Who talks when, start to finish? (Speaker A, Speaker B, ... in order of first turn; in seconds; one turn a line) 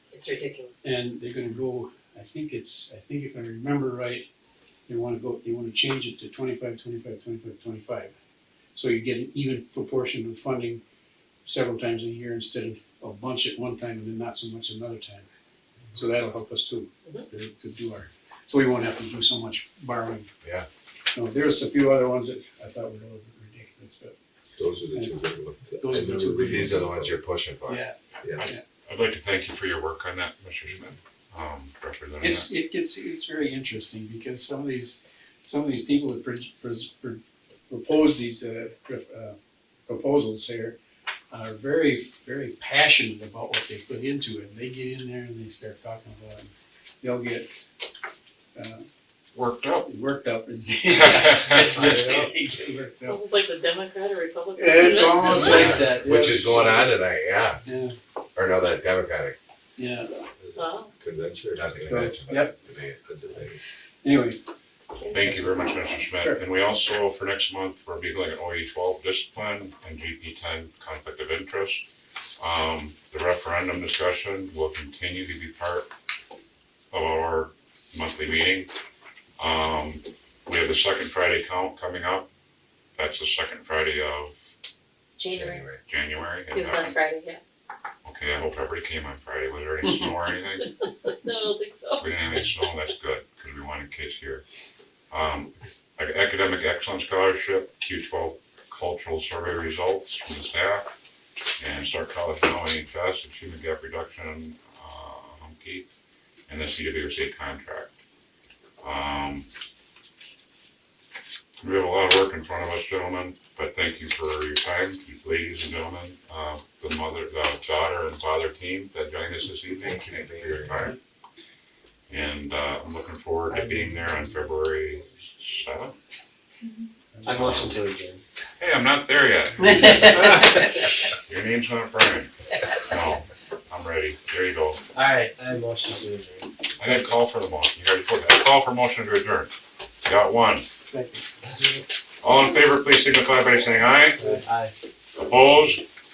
Speaker A: 0.1-0.9
Speaker B: 0.8-4.2
Speaker B: 4.9-8.1
Speaker B: 8.7-10.8
Speaker B: 11.4-15.3
Speaker B: 15.9-20.3
Speaker B: 21.1-24.1
Speaker C: 24.6-27.2
Speaker B: 24.9-25.2
Speaker B: 25.8-26.9
Speaker D: 26.4-27.8
Speaker B: 27.7-28.6
Speaker E: 28.4-32.5
Speaker B: 32.2-39.4
Speaker B: 39.9-40.8
Speaker B: 41.3-47.7
Speaker B: 48.5-48.8
Speaker E: 49.3-49.9
Speaker B: 49.8-53.2
Speaker E: 50.8-52.3
Speaker F: 51.8-52.0
Speaker A: 53.0-55.8
Speaker B: 54.5-57.0
Speaker D: 55.1-57.6
Speaker B: 57.6-57.9
Speaker D: 58.4-59.4
Speaker B: 59.8-60.2
Speaker C: 60.4-62.1
Speaker A: 60.5-60.9
Speaker D: 61.5-63.0
Speaker B: 61.8-62.5
Speaker C: 63.0-63.6
Speaker B: 64.0-64.4
Speaker A: 65.0-65.3
Speaker E: 65.1-71.8
Speaker B: 65.2-65.5
Speaker B: 66.1-66.4
Speaker E: 72.4-75.9
Speaker E: 76.9-78.7
Speaker E: 79.4-82.3
Speaker E: 83.0-84.3
Speaker A: 85.2-85.7
Speaker D: 85.3-85.8
Speaker E: 85.8-87.0
Speaker A: 86.5-87.4
Speaker E: 88.0-90.7
Speaker A: 91.1-92.1
Speaker E: 92.0-94.4
Speaker E: 95.1-100.9
Speaker E: 101.6-105.9
Speaker E: 106.5-107.9
Speaker E: 108.8-109.5
Speaker E: 111.6-121.0
Speaker D: 119.7-120.9
Speaker E: 122.1-126.0
Speaker F: 123.5-124.1
Speaker B: 127.1-127.5
Speaker F: 127.2-128.2
Speaker E: 127.3-127.8
Speaker E: 128.6-130.4
Speaker F: 129.6-130.8
Speaker E: 131.1-132.3
Speaker E: 132.8-134.8
Speaker F: 134.9-136.5
Speaker E: 136.8-140.7
Speaker B: 140.9-141.3
Speaker F: 141.4-141.8
Speaker E: 142.2-144.2
Speaker B: 144.2-144.4
Speaker F: 144.2-144.7
Speaker E: 145.2-145.8